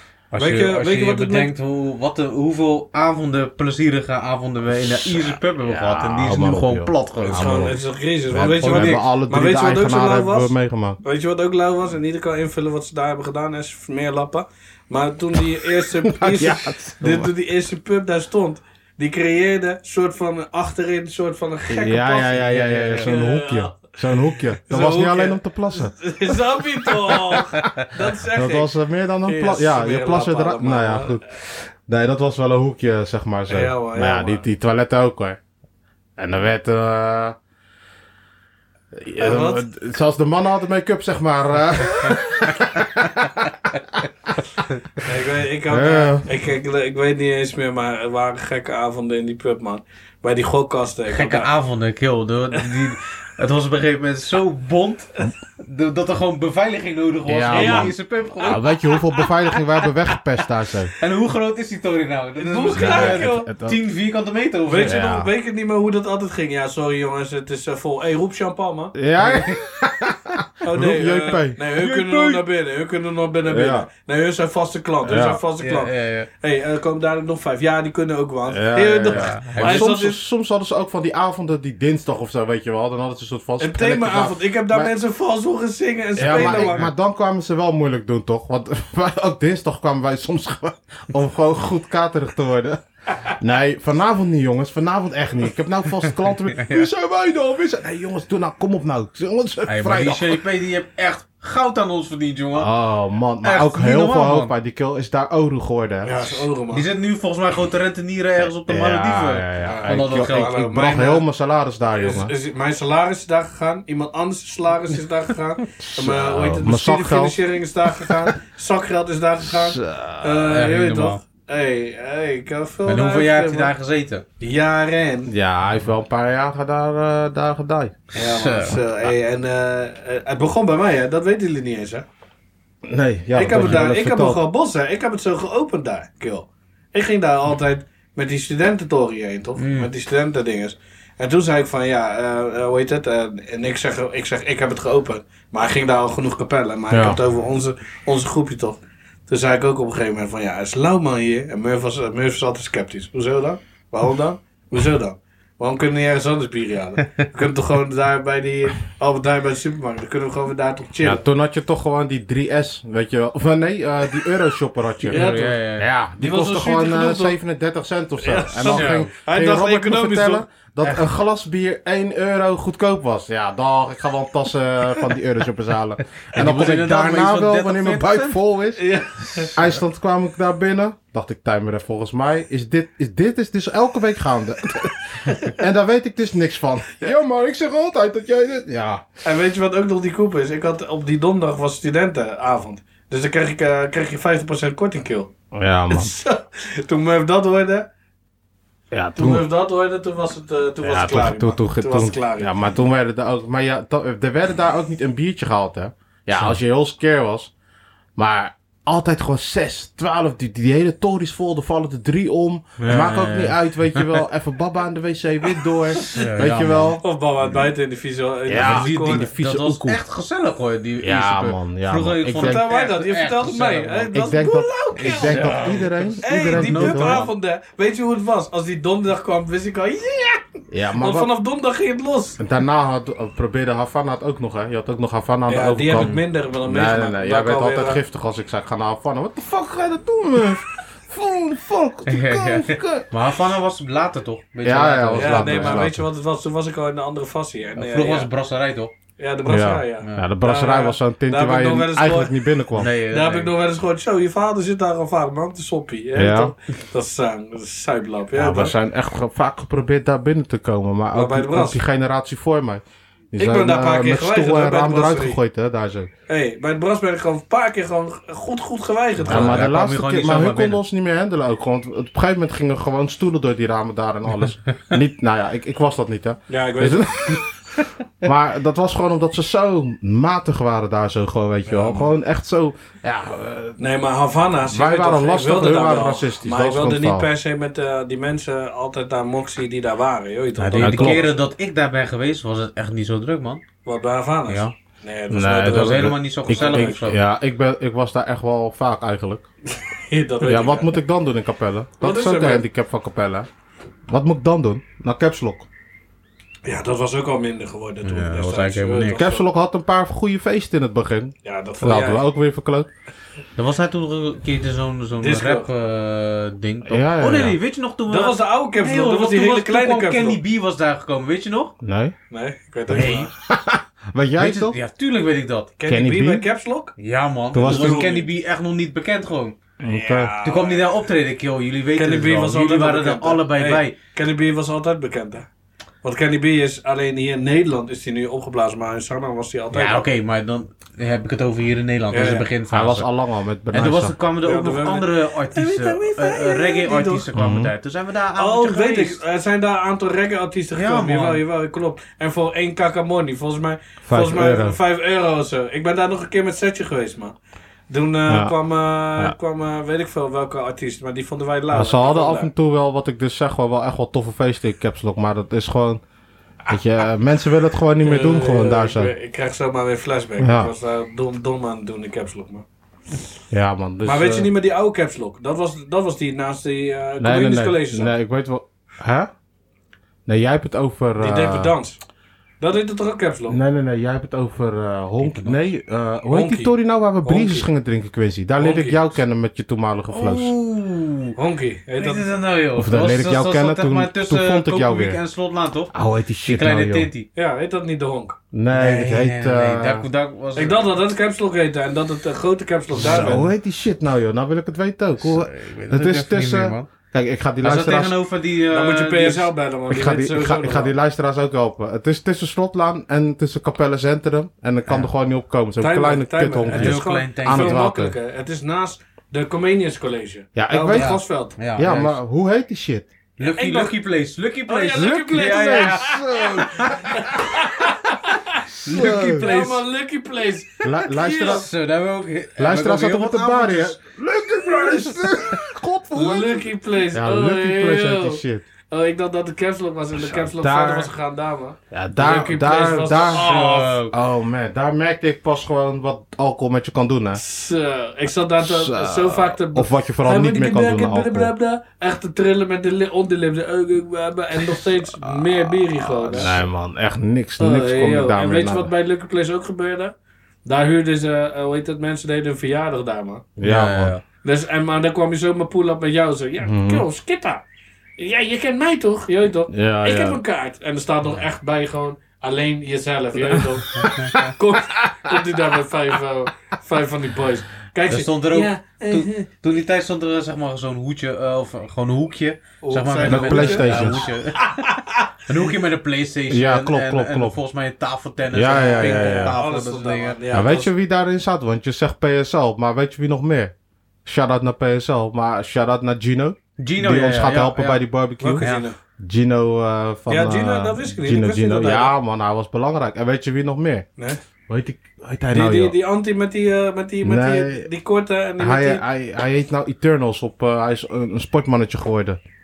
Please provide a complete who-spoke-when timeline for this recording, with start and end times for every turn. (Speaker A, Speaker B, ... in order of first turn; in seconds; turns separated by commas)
Speaker A: 0.3-7.7, Speaker B: 0.3-1.5, Speaker C: 4.7-7.8, Speaker B: 7.2-23.9, Speaker C: 8.3-11.0, Speaker A: 8.4-9.0, Speaker C: 16.0-17.3, Speaker C: 21.7-27.6, Speaker A: 22.4-23.1, Speaker B: 24.7-28.7, Speaker C: 28.3-35.4, Speaker B: 29.2-31.2, Speaker B: 33.5-34.4, Speaker C: 36.2-37.4, Speaker C: 38.9-44.3, Speaker B: 39.2-39.6, Speaker B: 45.0-51.5, Speaker C: 45.7-46.3, Speaker A: 51.1-58.6, Speaker C: 57.3-60.9, Speaker B: 57.5-59.2, Speaker A: 61.0-65.0, Speaker B: 62.4-63.5, Speaker C: 62.7-63.8, Speaker B: 64.7-68.9, Speaker C: 64.8-65.3, Speaker C: 68.9-71.6, Speaker A: 69.2-69.6, Speaker B: 70.6-80.2, Speaker A: 71.8-72.4, Speaker C: 73.5-73.9, Speaker C: 75.0-75.4, Speaker A: 75.6-76.3, Speaker C: 78.5-84.9, Speaker A: 79.1-79.9, Speaker B: 83.6-86.9, Speaker C: 86.2-92.8, Speaker A: 86.4-86.8, Speaker C: 93.3-100.4, Speaker A: 96.5-96.9, Speaker A: 99.7-102.7, Speaker C: 102.6-106.4, Speaker A: 103.4-104.5, Speaker B: 106.0-106.8, Speaker A: 106.7-110.6, Speaker C: 108.7-112.3, Speaker B: 109.6-111.2, Speaker B: 111.9-123.7, Speaker C: 115.8-117.4, Speaker C: 118.0-118.3, Speaker C: 119.5-120.5, Speaker A: 120.5-121.2, Speaker A: 122.8-124.2, Speaker B: 124.4-125.3, Speaker C: 125.3-128.0, Speaker A: 128.1-128.8, Speaker B: 128.1-132.1, Speaker C: 132.8-134.4, Speaker B: 133.3-161.2, Speaker A: 133.6-133.8, Speaker A: 139.6-139.9, Speaker C: 146.9-147.2, Speaker C: 161.0-178.8, Speaker A: 165.0-165.9, Speaker B: 165.1-165.6, Speaker B: 166.2-167.4, Speaker B: 168.2-170.4, Speaker A: 168.7-169.1, Speaker A: 176.3-178.4, Speaker B: 178.8-179.5, Speaker C: 179.5-189.1, Speaker B: 189.2-195.3, Speaker C: 195.5-196.1, Speaker B: 195.9-197.9, Speaker C: 198.9-199.4, Speaker B: 199.2-202.5, Speaker C: 200.8-207.5, Speaker C: 208.2-217.0, Speaker A: 212.8-214.2, Speaker A: 216.0-217.0, Speaker B: 217.0-219.3, Speaker C: 218.5-220.0, Speaker A: 218.5-224.1, Speaker C: 221.0-222.7, Speaker B: 222.4-230.4, Speaker C: 224.1-227.2, Speaker A: 224.9-227.3, Speaker C: 230.7-231.3, Speaker B: 231.0-232.4, Speaker C: 232.4-243.1, Speaker B: 235.5-238.0, Speaker A: 235.9-236.2, Speaker A: 242.1-245.8, Speaker C: 244.6-246.1, Speaker B: 245.1-248.3, Speaker A: 247.8-248.9, Speaker B: 249.2-258.7, Speaker C: 249.5-252.9, Speaker A: 250.0-250.3, Speaker A: 252.8-253.5, Speaker C: 256.1-256.5, Speaker C: 258.3-262.8, Speaker B: 261.1-261.8, Speaker C: 263.3-266.1, Speaker B: 263.4-265.4, Speaker B: 266.3-269.6, Speaker A: 269.2-270.8, Speaker C: 269.2-277.5, Speaker B: 276.5-277.4, Speaker C: 278.2-283.8, Speaker B: 281.7-282.1, Speaker B: 283.8-291.3, Speaker C: 284.7-287.3, Speaker A: 290.6-293.6, Speaker C: 290.8-291.3, Speaker B: 293.9-297.0, Speaker A: 294.5-294.7, Speaker C: 295.3-299.4, Speaker A: 295.6-297.2, Speaker B: 299.7-300.9, Speaker C: 300.4-303.5, Speaker B: 302.0-302.6, Speaker C: 304.1-305.7, Speaker B: 306.6-309.4, Speaker A: 308.0-309.2, Speaker C: 309.1-312.9, Speaker B: 311.4-312.2, Speaker A: 313.6-321.7, Speaker B: 315.2-315.7, Speaker C: 316.9-317.6, Speaker B: 318.1-320.4, Speaker C: 321.8-322.1, Speaker B: 322.3-323.3, Speaker A: 322.9-323.3, Speaker C: 322.9-324.8, Speaker A: 324.4-325.7, Speaker B: 325.8-326.9, Speaker C: 325.9-326.4, Speaker A: 327.0-329.6, Speaker C: 327.5-328.1, Speaker B: 327.6-328.3, Speaker C: 329.8-330.3, Speaker B: 329.8-330.8, Speaker A: 330.4-334.0, Speaker B: 331.9-335.4, Speaker B: 336.0-340.0, Speaker A: 339.7-343.1, Speaker B: 342.1-342.5, Speaker C: 342.7-344.1, Speaker A: 343.7-349.2, Speaker B: 344.4-347.2, Speaker C: 347.3-347.7, Speaker B: 348.4-357.4, Speaker A: 350.7-351.4, Speaker C: 354.1-354.8, Speaker B: 357.9-362.5, Speaker C: 358.3-358.5, Speaker C: 361.7-366.0, Speaker C: 366.7-369.1, Speaker B: 368.0-372.6, Speaker C: 370.4-370.7, Speaker C: 373.5-374.5, Speaker B: 374.0-378.1, Speaker C: 377.2-379.3, Speaker C: 380.3-381.7, Speaker B: 381.2-382.0, Speaker B: 382.6-383.6, Speaker C: 383.5-390.5, Speaker A: 385.2-385.6, Speaker B: 386.3-386.7, Speaker B: 387.2-387.7, Speaker B: 388.6-389.0, Speaker A: 390.1-391.4, Speaker B: 391.4-392.2, Speaker A: 392.0-395.9, Speaker C: 392.8-395.2, Speaker C: 395.9-397.1, Speaker A: 396.4-397.3, Speaker B: 397.3-398.4, Speaker C: 398.5-400.1, Speaker A: 398.7-400.9, Speaker B: 400.6-403.4, Speaker C: 402.9-408.1, Speaker A: 402.9-403.4, Speaker A: 405.2-406.9, Speaker A: 407.6-409.5, Speaker B: 408.7-410.9, Speaker C: 409.9-418.1, Speaker B: 415.8-421.6, Speaker A: 416.7-417.8, Speaker C: 420.5-423.1, Speaker A: 420.9-422.2, Speaker A: 423.4-426.8, Speaker B: 423.4-424.0, Speaker B: 424.7-431.6, Speaker C: 424.9-427.5, Speaker C: 428.8-429.5, Speaker A: 428.8-429.8, Speaker C: 430.8-431.7, Speaker A: 431.4-434.0, Speaker C: 432.6-438.6, Speaker A: 434.8-435.6, Speaker B: 436.1-444.0, Speaker C: 440.1-441.1, Speaker C: 441.9-443.5, Speaker A: 443.2-444.1, Speaker C: 444.1-447.4, Speaker B: 447.4-456.5, Speaker C: 448.6-451.5, Speaker C: 454.6-458.9, Speaker A: 456.3-456.6, Speaker B: 457.6-460.1, Speaker B: 460.6-463.4, Speaker C: 463.6-464.2, Speaker A: 463.6-464.2, Speaker B: 464.4-467.6, Speaker C: 466.6-467.0, Speaker B: 468.2-479.4, Speaker C: 469.7-470.4, Speaker A: 474.0-474.3, Speaker C: 474.0-474.5, Speaker A: 478.1-484.9, Speaker B: 482.8-485.6, Speaker C: 483.2-484.3, Speaker A: 485.5-490.4, Speaker C: 486.5-487.6, Speaker C: 488.5-489.6, Speaker B: 488.7-490.9, Speaker C: 490.5-493.7, Speaker C: 494.2-498.7, Speaker A: 496.8-498.0, Speaker B: 498.4-498.9, Speaker A: 498.6-498.9, Speaker C: 499.2-504.1, Speaker B: 500.3-502.1, Speaker C: 504.7-505.9, Speaker B: 505.5-509.0, Speaker C: 507.2-507.9, Speaker C: 508.6-512.4